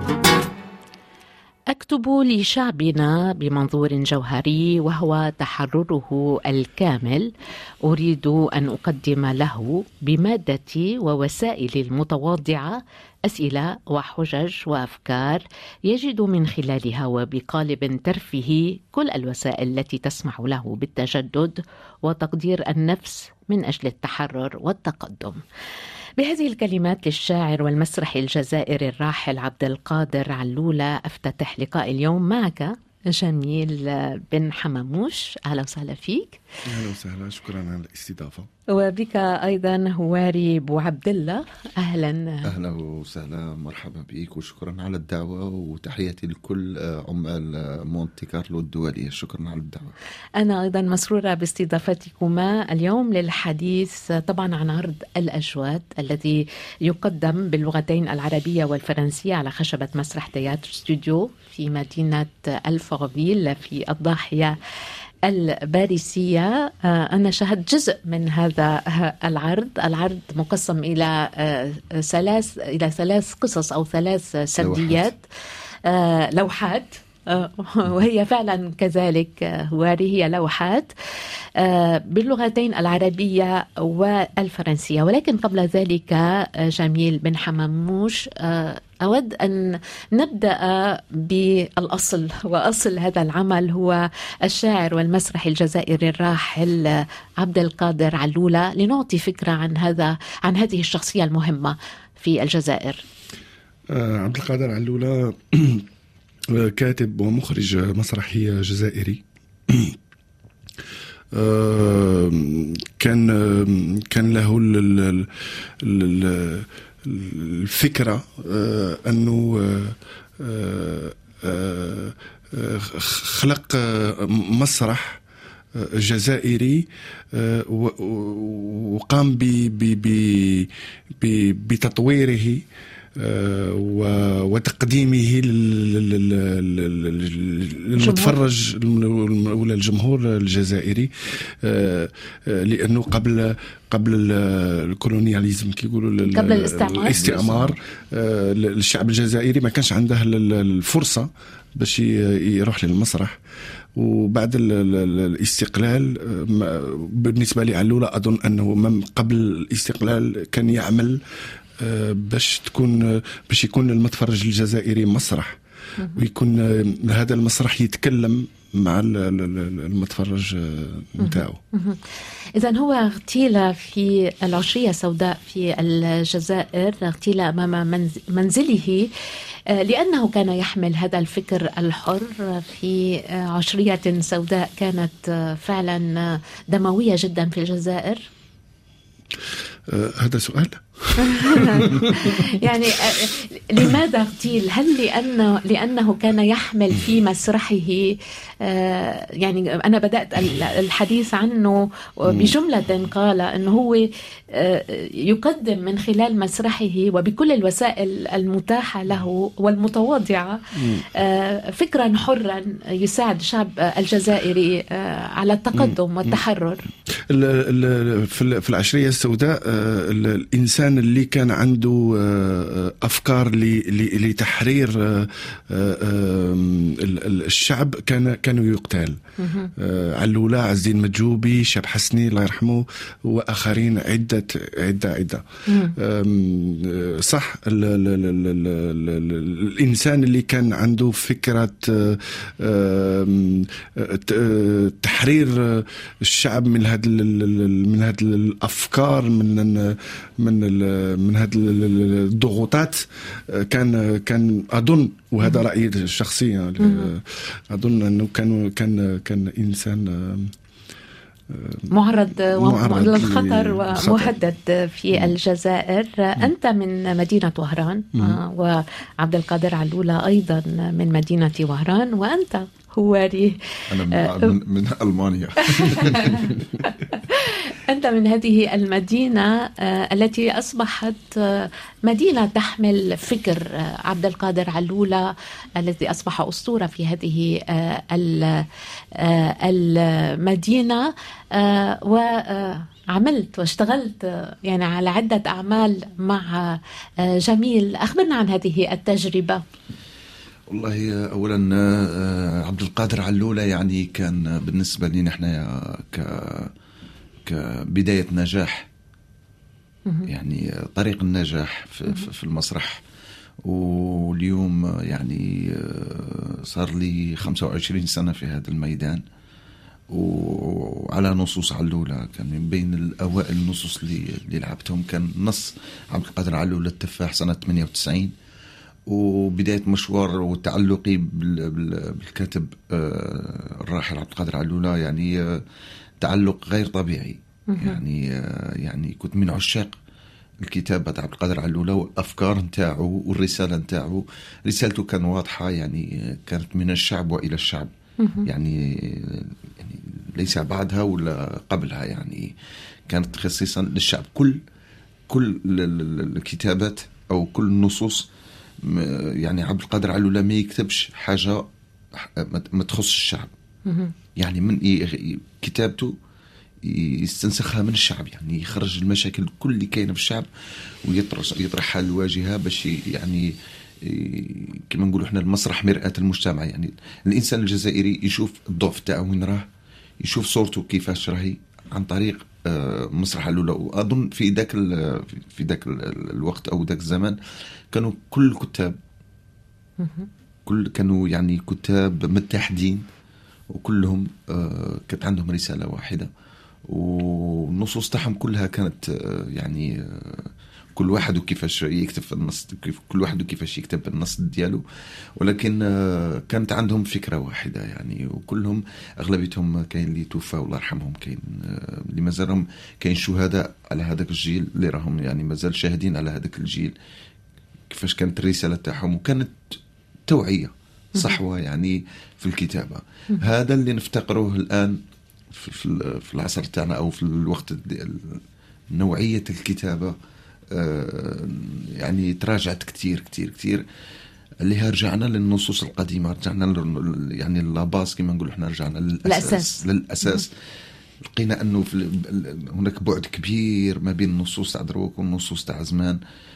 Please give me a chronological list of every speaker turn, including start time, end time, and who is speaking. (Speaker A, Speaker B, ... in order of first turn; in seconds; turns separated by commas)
Speaker A: 1.7-7.3, Speaker A: 7.8-25.4, Speaker A: 26.2-36.4, Speaker B: 36.6-38.5, Speaker A: 38.7-42.5, Speaker C: 42.4-49.9, Speaker A: 50.4-64.6, Speaker A: 65.2-75.2, Speaker C: 74.6-75.1, Speaker A: 75.8-80.9, Speaker A: 81.6-103.0, Speaker B: 103.9-105.8, Speaker B: 106.5-110.0, Speaker B: 111.3-125.2, Speaker B: 125.7-132.6, Speaker B: 133.2-153.4, Speaker A: 138.0-138.4, Speaker A: 146.3-147.2, Speaker C: 147.1-147.8, Speaker B: 153.9-161.2, Speaker B: 161.8-165.6, Speaker B: 166.1-171.6, Speaker A: 171.2-172.0, Speaker A: 172.6-179.1, Speaker A: 179.7-188.3, Speaker B: 189.9-193.2, Speaker A: 191.2-216.8, Speaker B: 215.7-216.4, Speaker B: 217.3-229.2, Speaker A: 229.4-229.7, Speaker B: 229.8-235.4, Speaker A: 235.7-235.9, Speaker B: 235.9-260.5, Speaker A: 256.8-257.1, Speaker B: 261.5-261.9, Speaker A: 261.9-274.5, Speaker B: 262.5-264.4, Speaker C: 273.9-276.6, Speaker A: 275.6-299.6, Speaker C: 300.7-306.7, Speaker C: 307.4-308.9, Speaker C: 310.3-313.0, Speaker C: 313.6-319.2, Speaker C: 320.1-328.3, Speaker C: 329.1-335.6, Speaker C: 336.2-339.9, Speaker A: 337.7-338.0, Speaker C: 340.6-347.9, Speaker A: 348.2-348.5, Speaker C: 348.4-352.5, Speaker C: 353.1-354.6, Speaker C: 355.3-358.2, Speaker C: 358.8-363.5, Speaker A: 363.9-364.1, Speaker C: 364.4-366.1, Speaker C: 366.8-370.5, Speaker C: 371.0-373.5, Speaker C: 374.0-379.6, Speaker C: 380.2-387.4, Speaker C: 387.9-389.0, Speaker A: 390.0-390.3, Speaker C: 390.6-393.1, Speaker C: 393.7-396.3, Speaker C: 396.9-404.8, Speaker C: 405.4-416.9, Speaker C: 417.9-419.7, Speaker C: 420.3-425.0, Speaker C: 425.5-428.4, Speaker C: 428.9-430.1, Speaker C: 430.7-433.8, Speaker C: 434.6-440.5, Speaker A: 439.2-440.4, Speaker C: 441.2-446.2